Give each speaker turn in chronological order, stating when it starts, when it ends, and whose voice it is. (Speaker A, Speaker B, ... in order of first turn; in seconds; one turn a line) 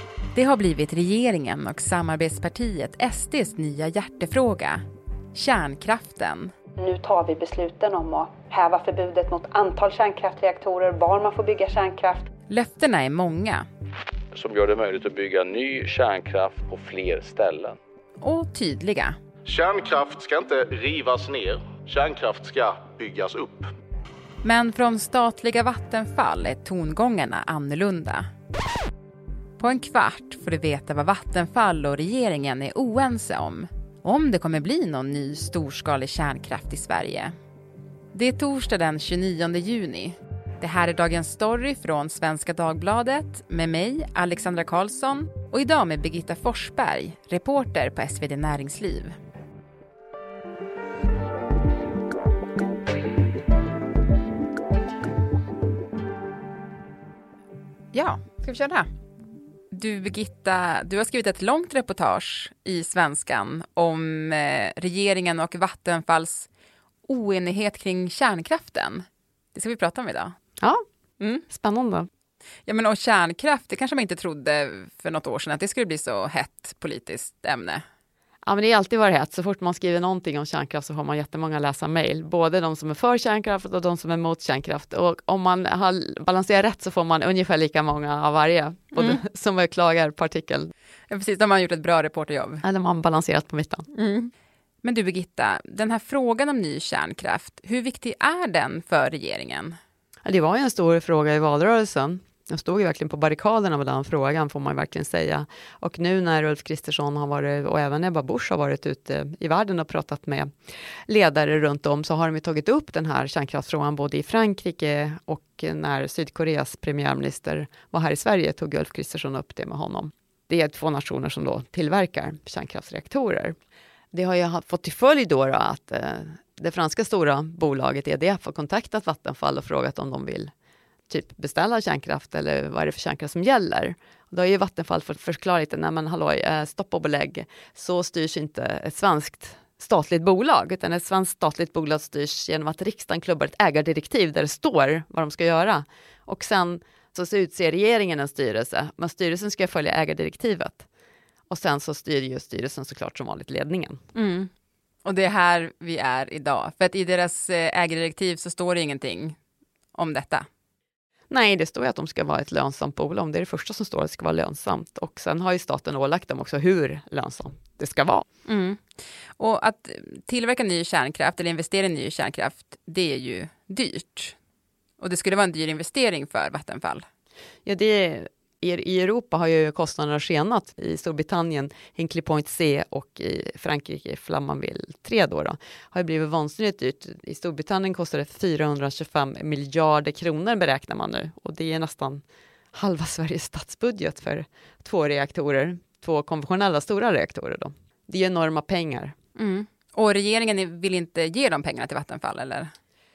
Speaker A: 0.3-4.8
Speaker A: 5.3-6.5
Speaker B: 6.8-12.3
Speaker A: 12.5-13.7
Speaker C: 14.3-17.8
Speaker A: 18.2-19.1
Speaker D: 19.4-23.7
Speaker A: 24.4-28.2
Speaker A: 29.6-37.3
Speaker A: 38.1-49.1
Speaker A: 57.9-58.9
Speaker A: 59.7-66.5
Speaker A: 67.1-70.3
Speaker A: 71.2-71.4
Speaker E: 71.5-72.1
Speaker A: 72.7-77.8
Speaker E: 78.5-90.7
Speaker A: 88.9-89.2
Speaker A: 91.1-92.6
Speaker E: 92.6-93.9
Speaker A: 93.9-94.3
Speaker A: 94.8-99.8
Speaker E: 100.2-110.5
Speaker E: 111.1-123.5
Speaker E: 124.1-130.5
Speaker E: 131.1-150.8
Speaker E: 151.5-154.0
Speaker A: 154.1-154.5
Speaker A: 155.0-159.4
Speaker A: 159.9-160.5
Speaker E: 161.3-168.2
Speaker A: 168.5-174.3
Speaker A: 175.0-177.0
Speaker E: 177.7-199.1
Speaker A: 199.3-202.7